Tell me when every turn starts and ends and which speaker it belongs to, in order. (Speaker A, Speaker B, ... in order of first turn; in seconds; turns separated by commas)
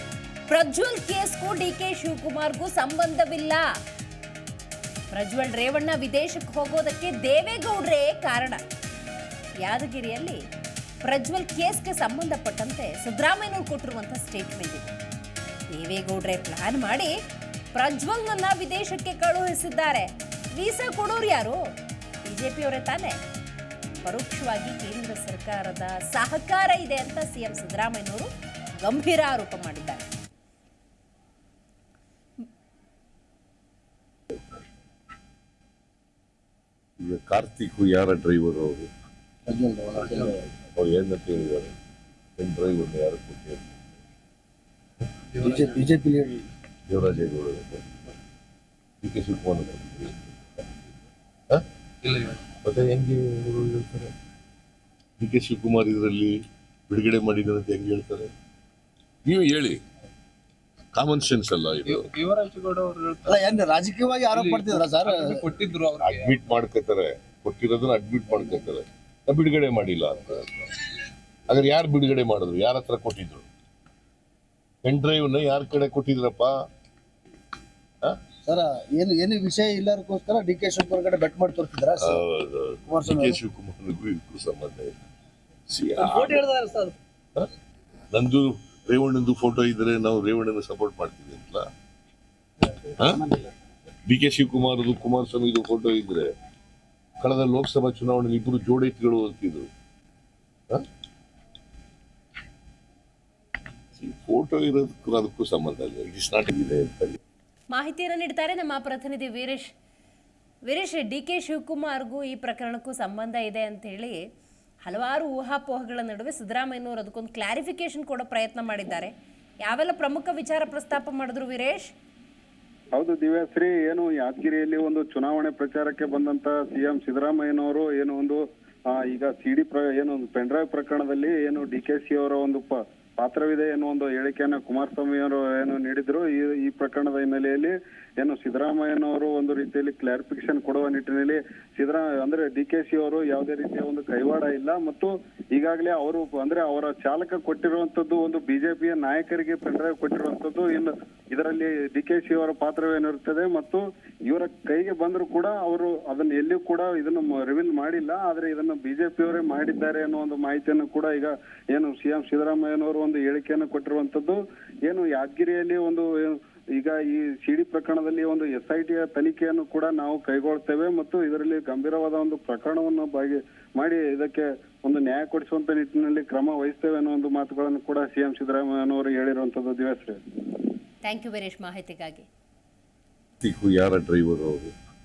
Speaker A: 0.5-3.6, Speaker A: 5.1-8.6, Speaker A: 9.6-10.4, Speaker A: 11.0-14.9, Speaker A: 15.7-17.1, Speaker A: 17.8-21.6, Speaker A: 22.2-23.2, Speaker A: 24.0-30.1, Speaker B: 37.0-38.9, Speaker C: 39.5-40.4, Speaker B: 40.7-41.7, Speaker B: 42.4-43.8, Speaker D: 45.3-45.8, Speaker C: 45.4-46.5, Speaker B: 46.9-47.9, Speaker B: 49.0-50.6, Speaker D: 52.1-52.3, Speaker B: 52.5-54.1, Speaker B: 55.2-56.3, Speaker B: 56.9-58.3, Speaker B: 59.2-59.8, Speaker B: 60.9-62.1, Speaker D: 61.9-63.5, Speaker C: 63.2-65.4, Speaker D: 64.3-66.3, Speaker B: 66.0-70.7, Speaker B: 71.5-73.5, Speaker B: 74.8-76.5, Speaker C: 78.4-82.2, Speaker B: 82.0-84.9, Speaker C: 82.9-83.4, Speaker B: 85.7-86.5, Speaker D: 86.0-86.9, Speaker B: 88.1-91.7, Speaker B: 93.0-93.2, Speaker B: 94.1-96.2, Speaker B: 97.2-99.7, Speaker B: 103.9-107.2, Speaker A: 107.7-109.7, Speaker A: 110.7-114.2, Speaker A: 114.9-119.1, Speaker A: 119.6-121.9, Speaker E: 123.0-128.4, Speaker E: 128.9-180.2, Speaker A: 181.0-182.3, Speaker B: 183.4-184.7